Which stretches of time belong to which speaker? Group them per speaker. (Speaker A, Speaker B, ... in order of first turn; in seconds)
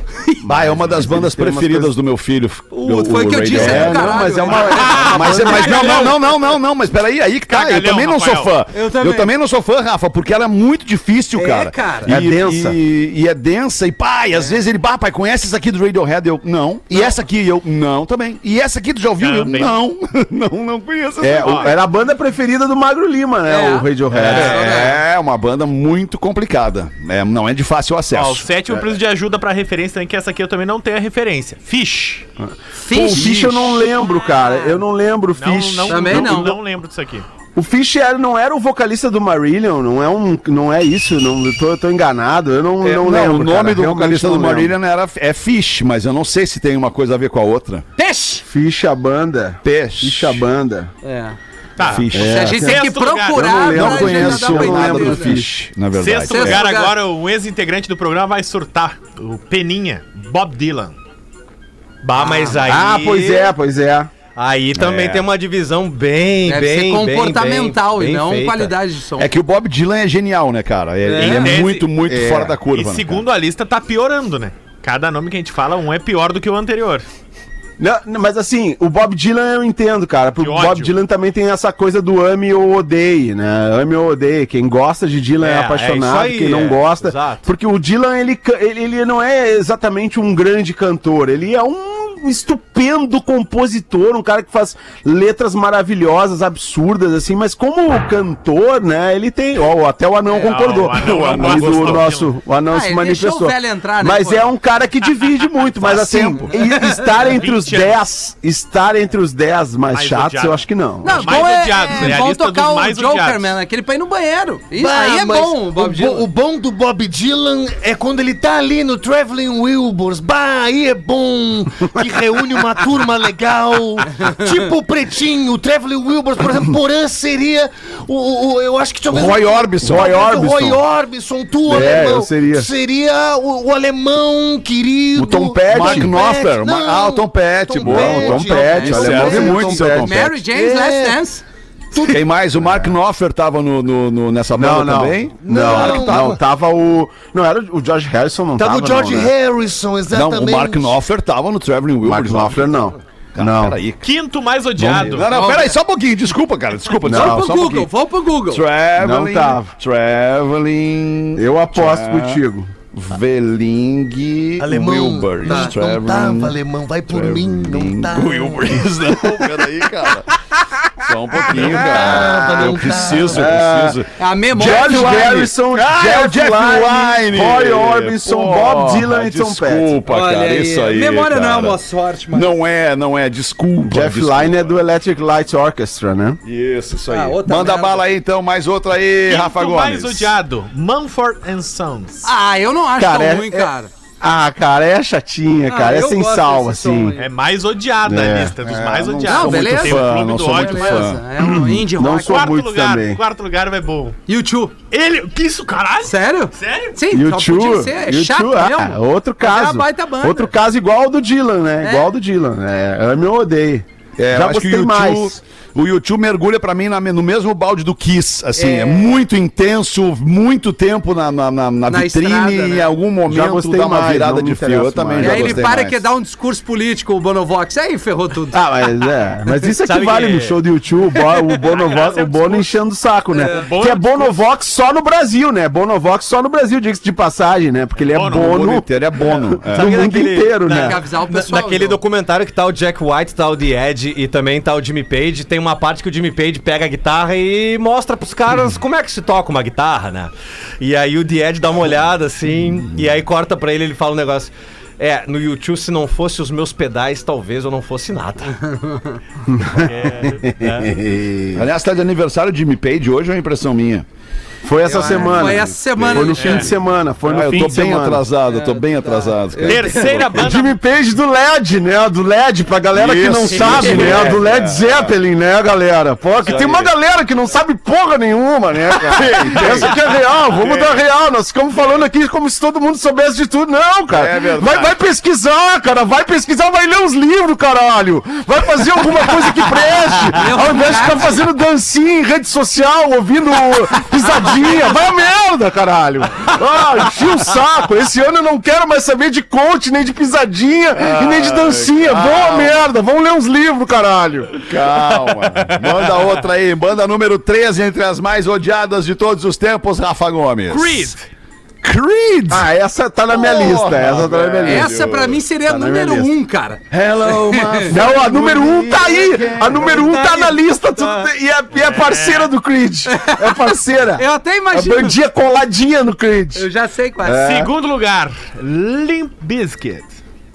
Speaker A: 0.4-1.9, 3.5-6.1, 12.1-12.8, 21.2-24.8, 32.4-36.6, 37.5-44.7, 48.5-50.9, 52.1-55.5, 62.6-64.1, 71.3-72.6, 77.8-111.4, 129.8-130.8, 131.7-132.7, 135.2-136.1, 137.9-140.2, 144.6-149.3, 152.0-153.8, 157.1-157.4, 159.0-159.7, 161.4-162.7, 172.0-172.7, 173.3-174.0, 174.5-180.0, 183.8-186.4, 193.0-193.7, 194.2-197.2, 198.1-199.1, 201.4-203.2, 207.1-215.4, 223.3-225.7, 228.5-241.0, 259.5-261.7, 264.6-268.2, 269.6-304.6, 312.5-315.0, 315.6-316.3, 317.9-326.7, 327.2-327.7
Speaker B: 0.5-21.8, 24.1-28.8, 33.2-33.6, 42.8-47.9, 49.6-50.5, 51.8-52.5, 53.7-56.6, 64.8-65.3, 69.2-73.2, 100.9-102.1, 105.7-106.5, 129.1-130.2, 135.7-140.3, 142.0-146.4, 150.1-154.1, 154.8-157.9, 158.5-162.4, 162.9-166.6, 167.1-170.3, 171.0-181.8, 182.3-184.8, 186.4-190.3, 198.9-201.2, 214.2-226.0, 238.3-240.0, 261.5-264.1, 265.9-266.6, 267.2-270.4, 272.9-275.1, 276.4-276.9, 279.1-280.0, 280.6-281.0, 284.1-285.0, 301.0-302.9, 304.7-311.1, 311.8-312.7, 313.3-315.4, 316.9-320.2
Speaker C: 2.7-5.1, 5.7-6.1, 8.7-9.3, 11.3-12.1, 23.5-25.0, 32.8-33.7, 35.9-36.6, 48.0-48.5, 51.0-51.4, 52.2-55.4, 56.3-57.0, 62.2-62.6, 66.5-69.3, 71.0-71.4, 102.7-104.5, 106.6-107.1, 111.0-116.3, 138.3-141.4, 155.3-155.8, 157.1-158.7, 165.5-165.7, 174.2-175.3, 180.1-182.5, 187.1-188.1, 192.2-193.9, 195.7-197.3, 199.3-202.4, 204.3-204.7, 206.1-210.5, 211.8-212.1, 218.6-219.2, 221.9-222.9, 225.2-228.6, 240.7-242.0, 258.7-259.1, 264.9-266.7, 268.5-269.7, 290.3-291.5, 314.6-317.9, 319.9-321.3, 323.1-325.2, 326.6-327.4
Speaker D: 4.7-6.1, 7.5-8.5, 19.2-19.8, 21.4-21.7, 24.3-24.7, 28.1-32.3, 35.4-37.3, 51.8-53.6, 55.9-61.0, 71.2-71.9, 72.7-77.1, 80.4-80.9, 100.3-102.3, 107.1-108.0, 109.9-113.5, 154.0-155.3, 189.3-192.3, 197.2-201.1, 202.1-204.2, 204.9-207.0, 231.6-232.7, 233.4-234.4, 238.0-238.8, 259.8-260.5, 266.4-266.7, 269.6-270.8, 310.7-311.3, 321.7-322.5, 327.3-330.2
Speaker E: 62.0-63.5, 64.3-68.7, 85.4-87.5, 229.8-230.6, 239.7-258.6, 260.6-260.9, 273.6-274.4
Speaker F: 114.7-139.7, 140.4-141.2, 141.9-142.2, 145.5-146.4, 148.6-150.9, 164.6-168.8, 171.6-173.6